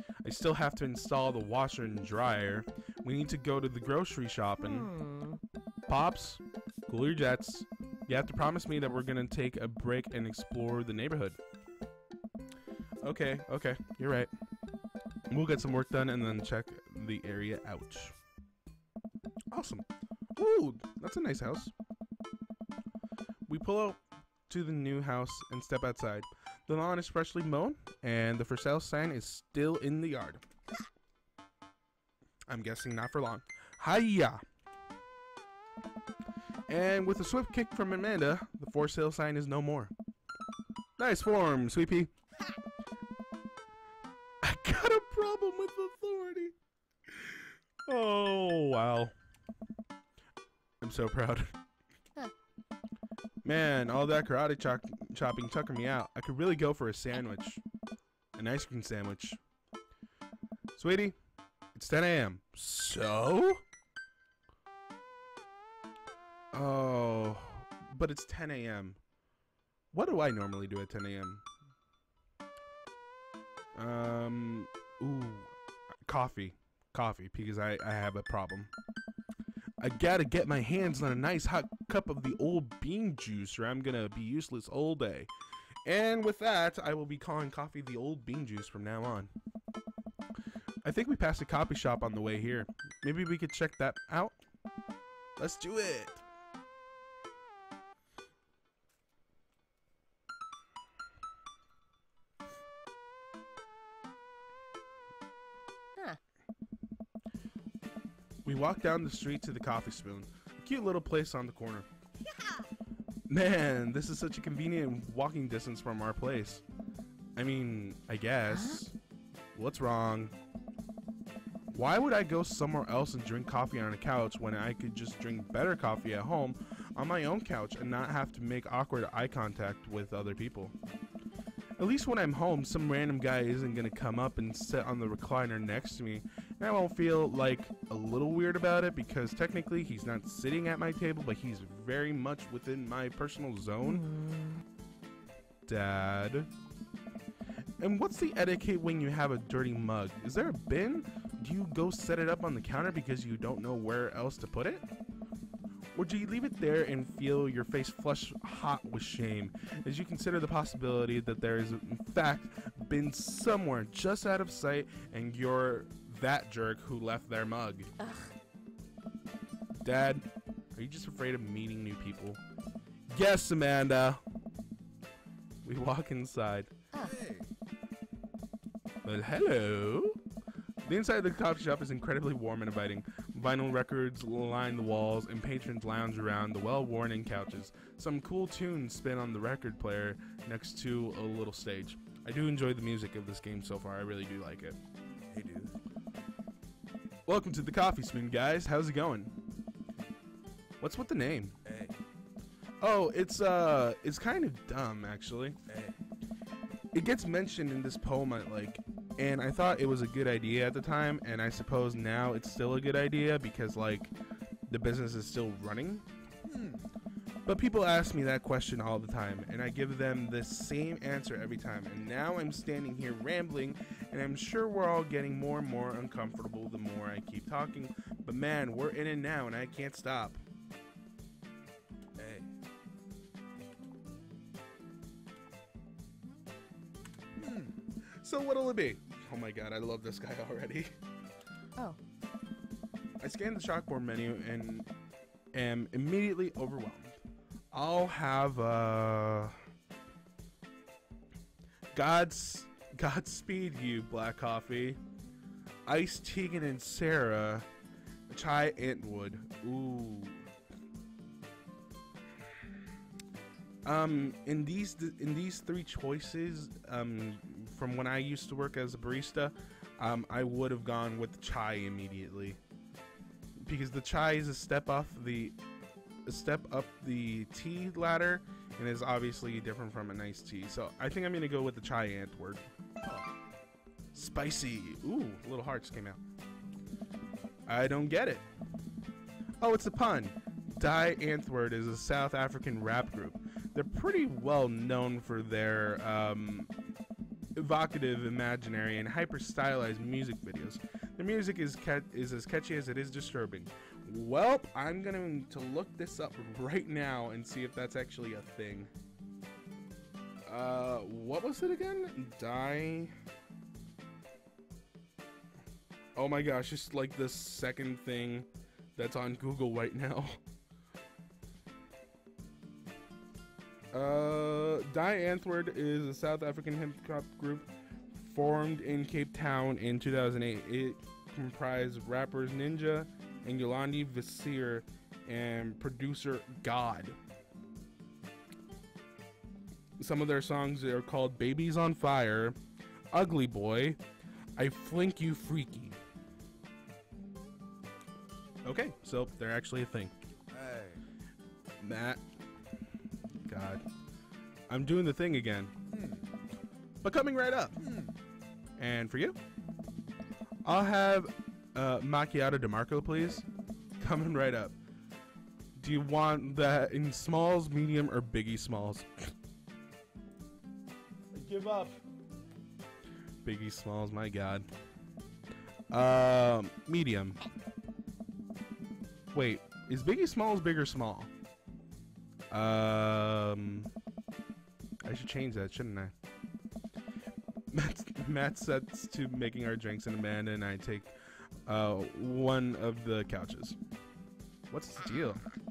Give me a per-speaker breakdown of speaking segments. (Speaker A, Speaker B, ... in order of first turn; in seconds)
Speaker A: 0.2-4.9, 5.9-11.4, 13.0-14.3, 15.3-18.2, 19.5-21.7, 23.5-30.4, 32.5-34.4, 36.7-39.9, 41.0-42.1, 44.4-46.5, 47.1-49.1, 50.8-51.5, 53.4-57.6, 58.4-59.4, 60.7-61.1, 61.7-63.6, 66.5-69.0, 69.9-71.4, 73.7-75.5, 76.0-78.7, 79.8-85.3, 85.8-89.3, 90.8-94.4, 95.4-96.2, 108.4-111.9, 113.3-116.6, 117.3-118.9, 119.5-120.3, 121.7-130.7, 131.8-144.1, 145.7-146.5, 147.8-154.8, 155.9-167.9, 169.8-172.4, 173.1-174.2, 175.6-176.7, 179.0-180.2, 180.8-194.8, 197.2-199.3, 200.8-201.6, 202.8-205.6, 206.9-214.1, 214.7-216.1, 217.4-230.4, 238.1-240.9, 243.2-244.9, 245.5-247.2, 247.7-249.6, 251.9-255.0, 255.8-257.7, 258.3-260.4, 263.8-272.6, 273.6-275.6, 276.2-282.6, 284.1-286.2, 287.7-288.4, 289.6-296.7, 297.5-308.9, 310.4-313.1, 316.1-320.4, 323.9-337.2, 340.0-342.6, 343.1-344.0, 344.6-346.0, 348.6-350.2, 351.8-352.2, 353.4-353.8, 354.7-355.7, 357.0-357.7, 358.8-359.4, 360.6-363.5, 364.0-364.8, 365.8-369.3, 371.3-372.0, 373.4-374.7, 375.9-377.4, 379.3-381.3, 382.5-383.9, 385.0-386.1, 387.7-391.1, 391.6-393.8, 394.7-395.5
Speaker B: 4.6-5.4, 112.3-112.7, 118.5-118.8, 143.8-144.6, 168.0-168.3
Speaker C: 177.0-177.5, 195.3-195.7, 201.6-202.0, 205.7-206.0, 216.4-216.8, 232.2-232.5, 237.3-237.7, 350.5-351.0, 355.9-356.3, 357.8-358.1